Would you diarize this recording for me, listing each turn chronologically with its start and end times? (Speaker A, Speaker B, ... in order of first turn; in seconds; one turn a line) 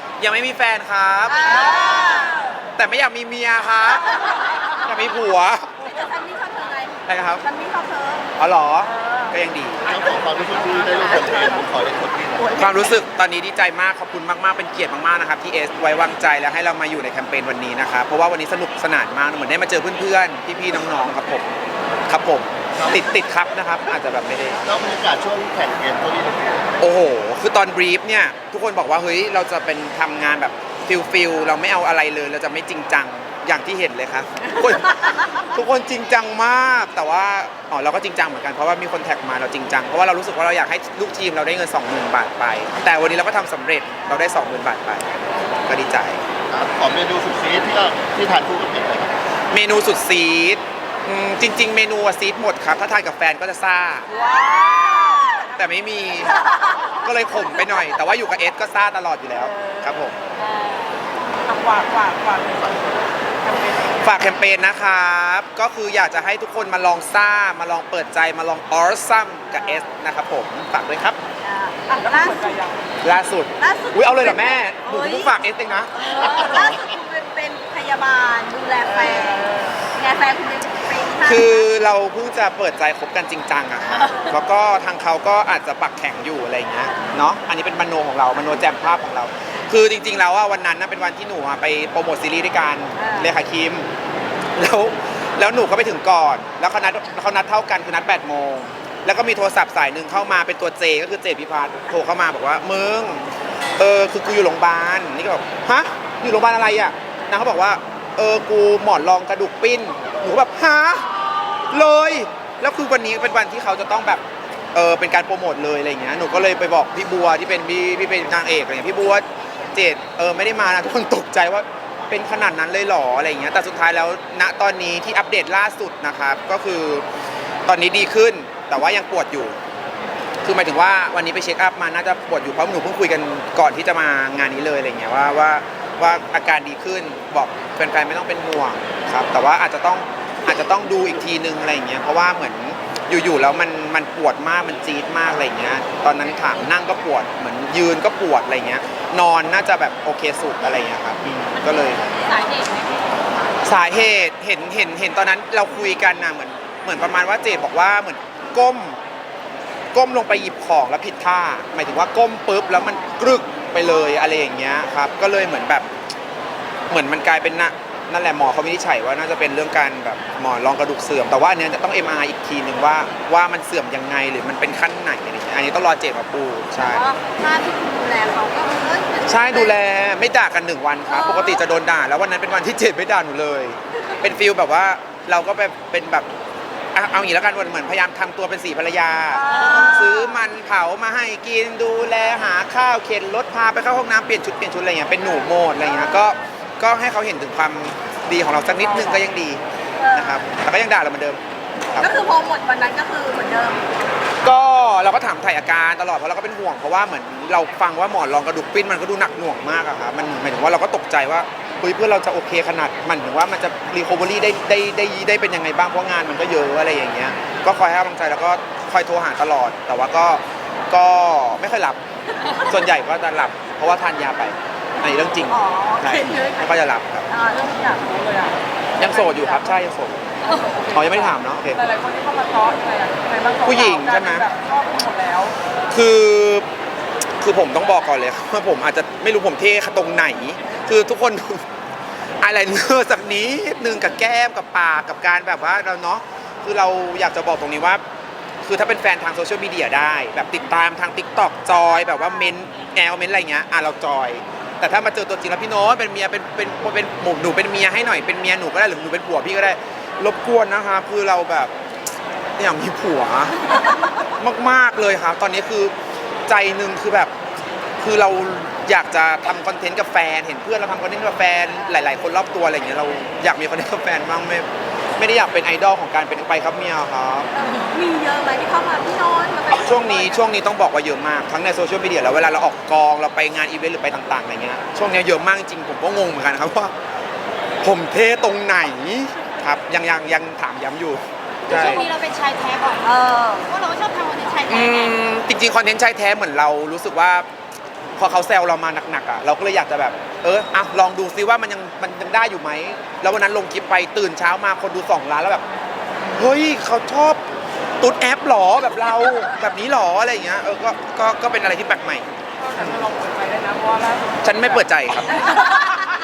Speaker A: 0.2-1.8
Speaker B: 1.4-2.3
Speaker A: 2.8-5.8
Speaker B: 5.8-8.3
Speaker A: 7.1-7.5
Speaker A: 8.4-10.0
Speaker C: 9.9-12.5
Speaker A: 12.5-21.5
Speaker A: 22.1-24.6
Speaker C: 24.7-26.6
Speaker A: 26.8-45.1
Speaker A: 45.6-46.2
Speaker C: 46.5-49.1
Speaker A: 49.5-54.1
Speaker B: 54.7-55.2
Speaker A: 55.5-60.2
Speaker B: 60.4-61.0
Speaker D: 61.4-63.9
Speaker A: 64.0-71.2
Speaker B: 71.4-72.5
Speaker D: 71.9-72.8
Speaker A: 73.0-75.9
Speaker B: 73.6-75.3
Speaker B: 75.9-81.7
Speaker D: 79.0-79.7
Speaker A: 81.2-93.9
Speaker B: 84.0-84.3
Speaker B: 93.0-93.3
Speaker A: 94.5-103.3
Speaker A: 103.8-111.1
Speaker A: 111.7-114.2
Speaker A: 114.7-127.0
Speaker A: 127.7-129.6
Speaker A: 130.4-152.0
Speaker E: 152.1-153.2
Speaker A: 153.6-159.0
Speaker A: 159.9-165.9
Speaker A: 166.9-177.1
Speaker B: 176.8-179.8
Speaker A: 179.2-186.3
Speaker B: 181.1-181.6
Speaker A: 186.9-202.2
Speaker B: 189.4-190.4
Speaker B: 200.0-200.5
Speaker B: 202.0-203.9
Speaker A: 204.4-222.0
Speaker A: 222.6-227.3
Speaker B: 225.5-226.7
Speaker B: 227.3-228.2
Speaker D: 228.2-228.6
Speaker A: 229.0-230.3
Speaker B: 230.5-230.8
Speaker D: 230.7-235.6
Speaker A: 230.9-231.8
Speaker A: 233.6-234.5
Speaker A: 235.9-236.7
Speaker A: 237.4-241.6
Speaker A: 242.4-248.0
Speaker A: 248.6-261.7
Speaker A: 262.6-265.9
Speaker A: 266.5-267.3
Speaker A: 268.0-277.5
Speaker B: 271.8-272.1
Speaker B: 277.5-280.4
Speaker A: 279.7-286.9
Speaker A: 287.8-292.1
Speaker E: 291.7-295.1
Speaker B: 291.8-292.1
Speaker B: 293.0-293.7
Speaker A: 294.7-297.5
Speaker B: 294.9-295.1
Speaker A: 298.2-305.6
Speaker A: 306.4-307.4
Speaker A: 308.0-313.1
Speaker D: 312.6-314.7
Speaker A: 314.4-315.9
Speaker B: 315.5-316.1